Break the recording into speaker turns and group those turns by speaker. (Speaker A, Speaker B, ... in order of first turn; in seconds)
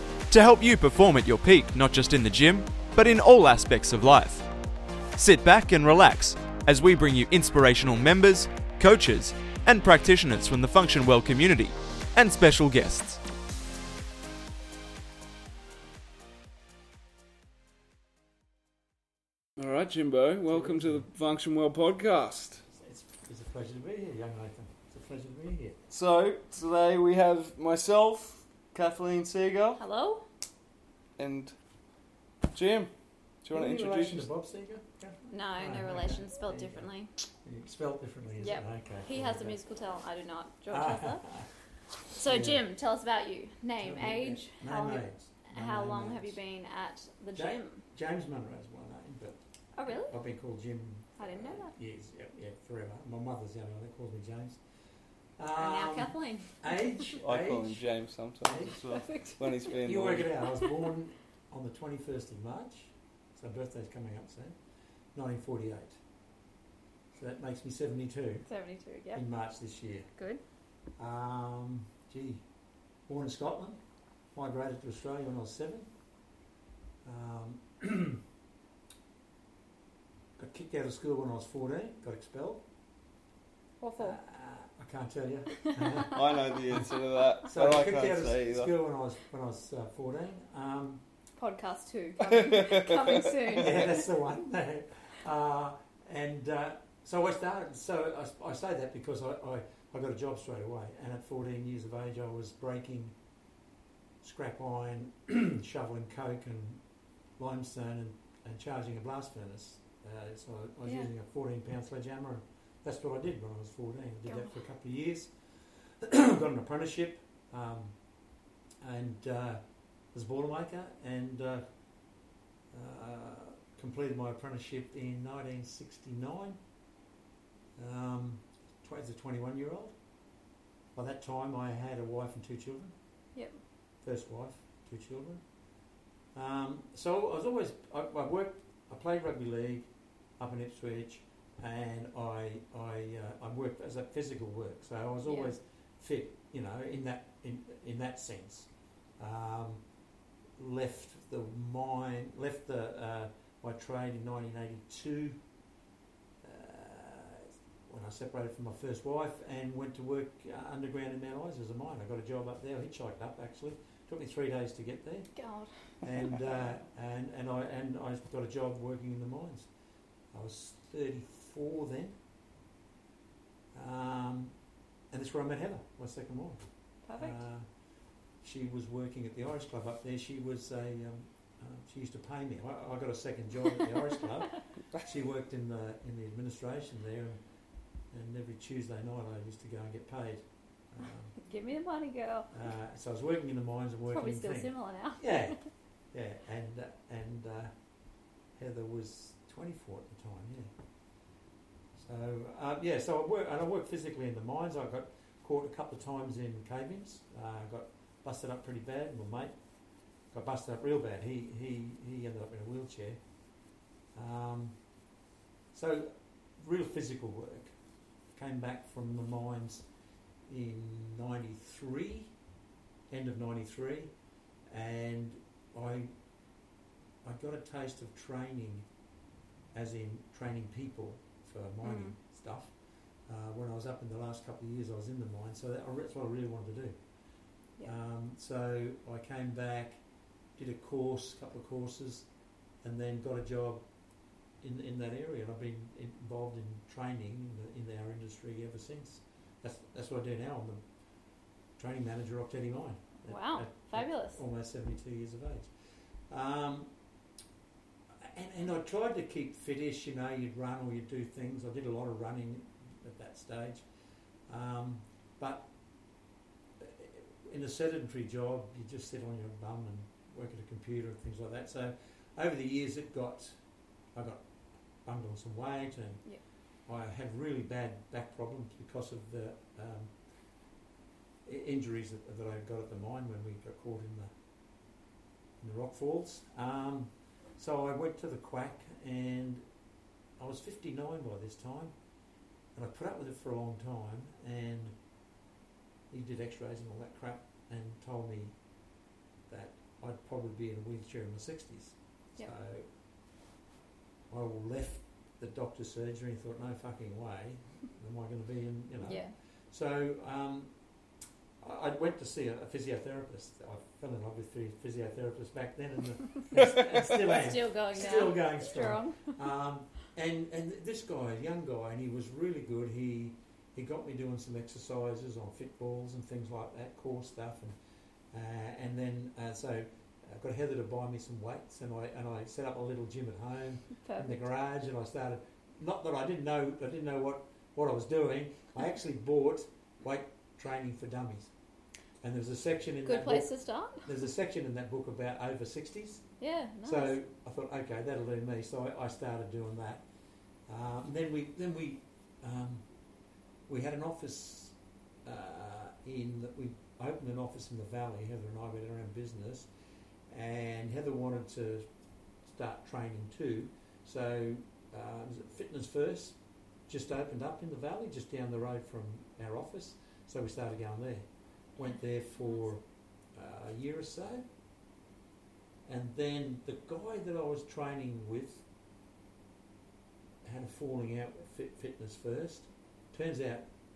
Speaker A: 0.3-4.5, 5.1-13.2
Speaker B: 19.6-22.6, 25.9-29.8, 31.2-31.5, 32.5-32.9, 33.4-34.3, 57.2-60.3, 86.0-88.7, 92.4-93.2
Speaker C: 20.5-21.1, 22.7-25.8, 33.5-36.9, 37.4-39.6, 40.7-41.5, 42.2-42.6, 43.8-46.4, 47.4-54.6, 55.4-57.9, 58.4-58.7, 59.7-64.6, 65.1-66.0, 67.1-68.5, 69.1-70.1, 71.0-72.4, 73.1-73.8, 74.3-75.9, 77.0-78.2, 80.4-82.6, 84.0-91.0, 93.5-103.1, 104.2-106.8, 107.4-118.0, 118.8-119.6, 120.1-121.6, 122.7-126.6, 127.8-129.9, 130.9-132.9, 134.0-135.4, 136.3-149.8, 150.6-155.4, 156.4-165.3, 166.0-169.7, 170.3-172.2, 173.7-174.5, 175.1-176.6, 177.2-177.7, 178.4-187.4, 188.1-191.3, 192.5-195.6, 196.1-197.7, 198.6-200.7, 202.0-209.6, 210.3-213.2, 214.1-214.8, 215.7-217.7, 218.3-219.9, 220.4-222.3, 223.1-224.1, 224.7-226.1, 227.2-228.8, 229.7-232.7, 233.2-237.0, 237.8-240.0, 240.6-242.3, 242.8-243.8, 244.6-250.8, 251.8-255.7, 256.3-256.9, 258.2-263.8, 264.5-265.7, 266.8-273.6, 274.1-274.4, 275.0-276.2, 276.9-280.1, 281.4-284.3, 285.6-289.6, 290.4-291.9, 292.7-295.0, 296.1-298.5, 299.5-302.9, 304.3-310.7, 311.6-327.8, 328.3-341.5, 342.2-343.5, 344.0-346.2, 346.8-350.0, 350.7-352.8, 353.7-359.7, 360.3-361.8, 362.4-366.4, 366.9-374.4, 375.8-378.6, 380.4-383.7
Speaker D: 29.8-30.2, 35.3-37.1, 38.4-41.3, 42.1-47.8, 49.7-50.1, 51.2-51.7, 55.5-57.2, 58.7-59.7, 68.5-69.2, 70.2-70.4, 83.8-84.2, 85.6-86.2, 91.4-94.0, 110.8-111.1, 114.2-114.6, 133.3-133.6, 145.2-145.5, 165.3-166.5, 177.0-177.4, 191.4-192.5, 194.1-195.6, 231.8-232.2, 253.3-254.4, 309.0-309.3, 317.2-319.4, 334.0-334.4, 343.0-344.1, 346.4-347.1, 372.4-372.6